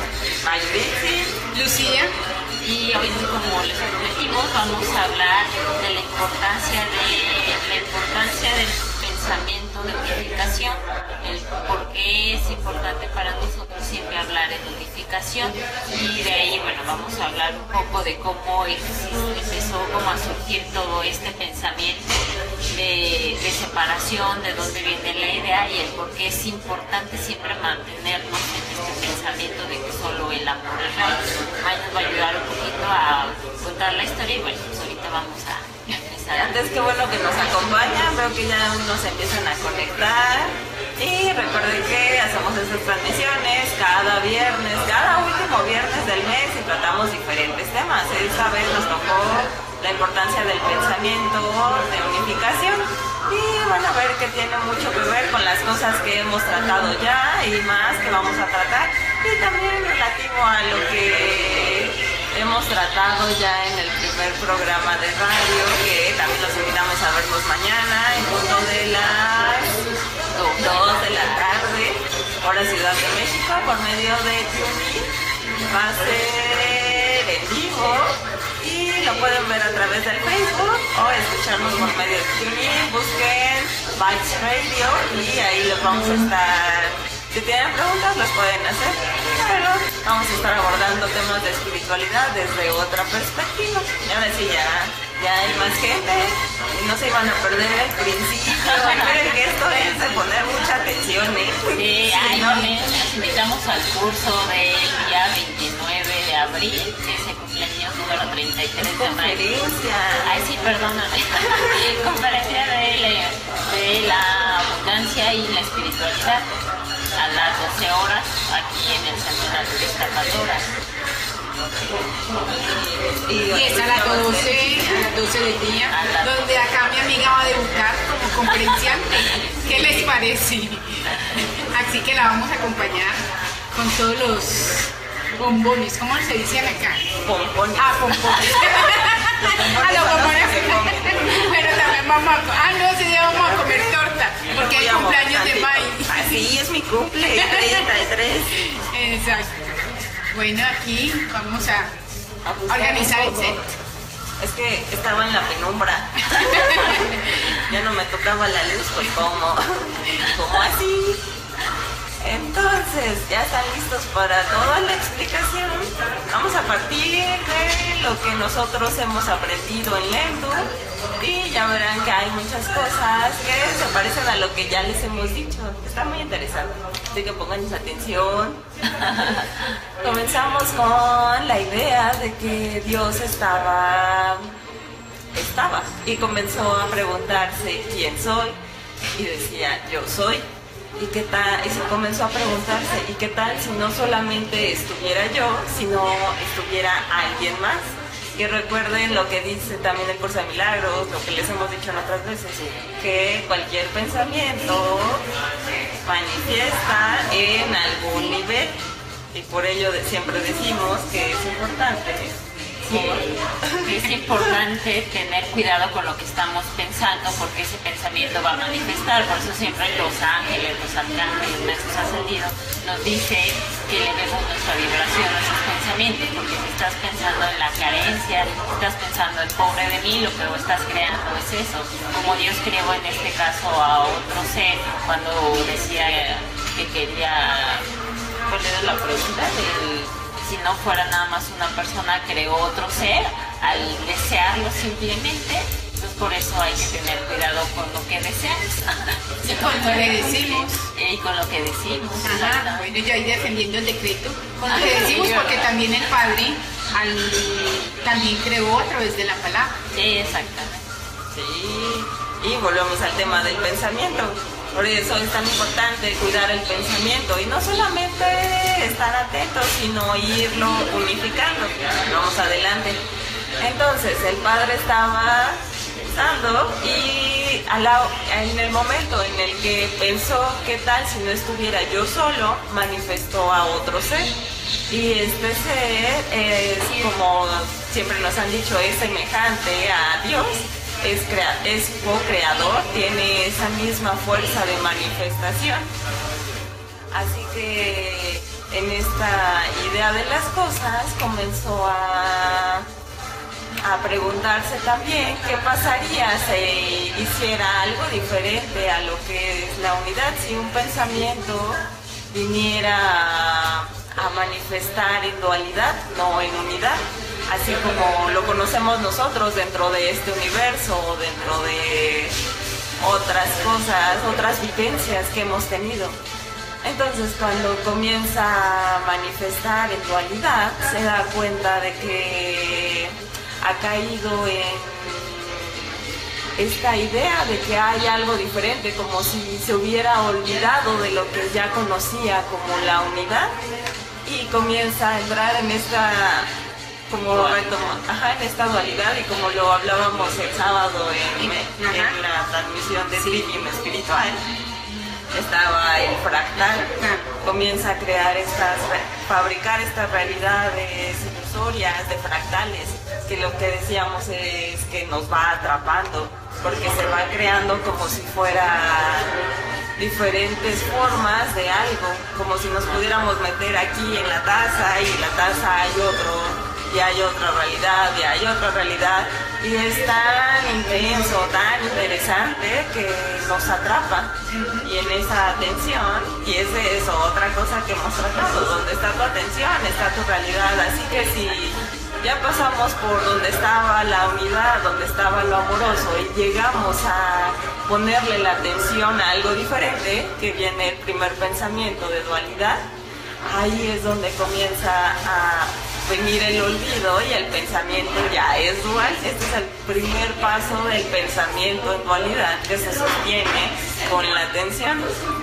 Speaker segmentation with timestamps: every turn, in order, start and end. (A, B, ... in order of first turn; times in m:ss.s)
0:00.4-0:01.4 A
0:01.5-0:02.1 B
0:02.6-0:22.2 C
0:22.7-0:36.6 C
0:36.3-1:09.8 A
1:10.3-1:10.6 C
1:10.6-1:15.1 A
1:15.7-1:42.7 A
1:38.7-1:39.1 C
1:41.7-1:49.5 C
1:48.8-1:50.3 A
1:50.2-1:56.4 C
1:57.2-2:00.7 C
2:02.4-2:04.9 A
2:03.5-2:17.0 B
2:05.9-2:06.4 C
2:17.2-2:21.7 A
2:17.8-2:26.5 B
2:23.5-2:23.8 A
2:24.5-2:28.6 A
2:27.3-2:27.9 B
2:28.6-2:29.8 B
2:30.3-2:31.9 B
2:32.4-2:33.6 A
2:32.7-2:33.6 B
2:34.4-2:41.2 A
2:36.2-2:37.3 B
2:42.2-2:59.4 A
3:00.0-3:04.6 A
3:05.3-3:08.6 A
3:09.2-3:25.3 A
3:26.0-3:28.8 A
3:29.3-3:34.1 A
3:32.9-3:33.2 C
3:33.8-3:57.8 C
3:58.5-4:12.9 C
4:09.4-4:10.9 B
4:12.2-4:19.8 B
4:14.6-4:15.7 C
4:19.9-4:20.8 C
4:21.3-4:33.0 A
4:33.6-4:35.6 A
4:36.1-4:44.3 A
4:44.9-4:55.9 A
4:57.1-5:02.9 A
5:03.8-5:22.4 A
5:23.0-5:26.2 A
5:26.8-5:36.0 A
5:36.6-5:43.6 A
5:44.2-5:46.5 A
5:47.1-5:54.4 A
5:51.7-5:52.2 B
5:55.3-6:09.4 A
5:57.0-5:57.3 B
6:10.0-6:42.8 A
6:24.5-6:24.9 B
6:43.4-6:55.2 A